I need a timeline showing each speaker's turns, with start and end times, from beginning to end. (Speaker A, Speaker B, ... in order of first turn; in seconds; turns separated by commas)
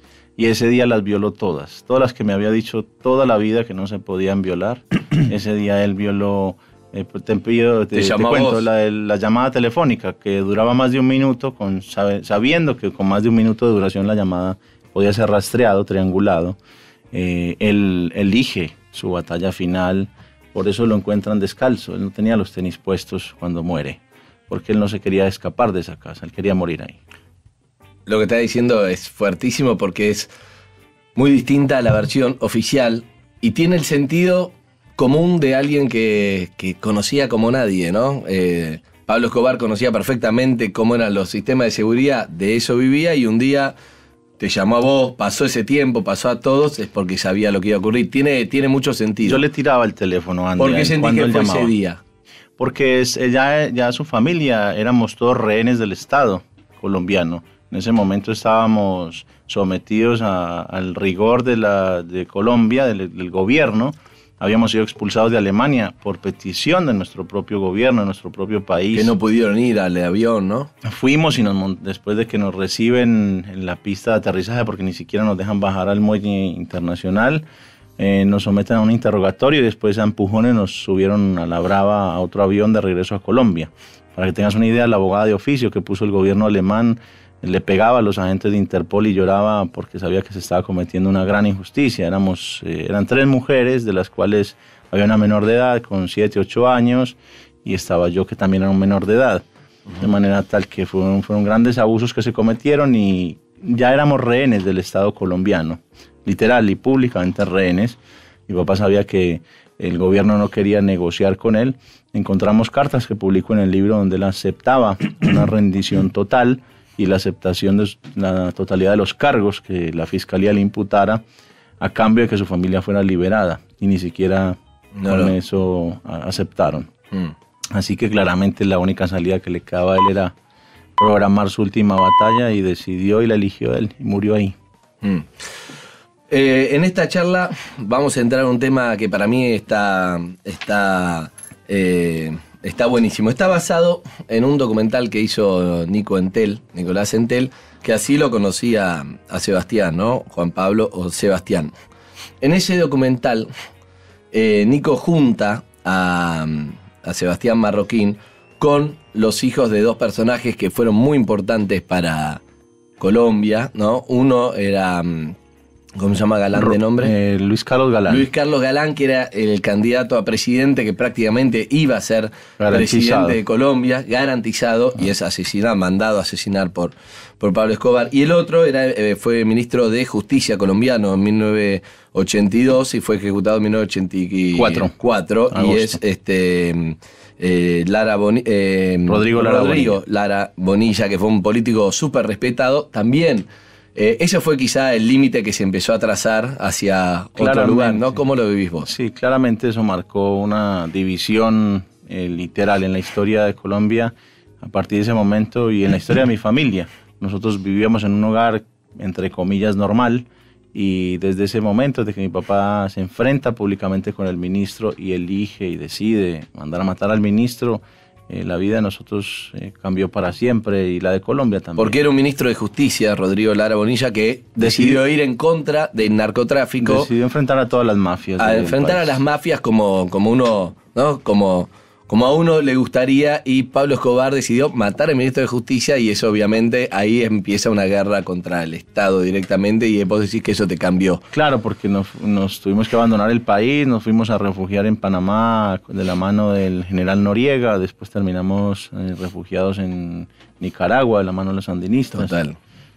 Speaker A: 0.4-16.6, Speaker B: 7.9-8.7, Speaker A: 17.1-27.0, Speaker B: 28.1-30.3, Speaker B: 31.2-43.8, Speaker B: 44.4-49.4, Speaker A: 49.2-51.7, Speaker B: 50.6-52.0, Speaker A: 52.6-69.1, Speaker B: 68.9-70.7, Speaker A: 70.8-77.4, Speaker A: 78.0-99.5, Speaker A: 100.0-121.2, Speaker A: 121.8-126.9, Speaker B: 125.0-125.3, Speaker A: 127.7-130.3, Speaker A: 131.0-134.6, Speaker B: 136.3-151.7, Speaker B: 152.4-153.5, Speaker B: 154.3-162.4, Speaker B: 163.0-165.4, Speaker B: 166.0-167.1, Speaker A: 166.6-168.3, Speaker B: 168.1-198.9, Speaker A: 172.6-173.4, Speaker A: 184.5-184.9, Speaker A: 185.5-186.0, Speaker A: 189.1-190.0, Speaker A: 197.4-198.2, Speaker A: 198.9-222.0, Speaker B: 221.8-227.1, Speaker A: 224.6-225.0, Speaker A: 226.8-229.2, Speaker B: 228.4-241.2, Speaker A: 241.3-252.4, Speaker B: 252.1-252.6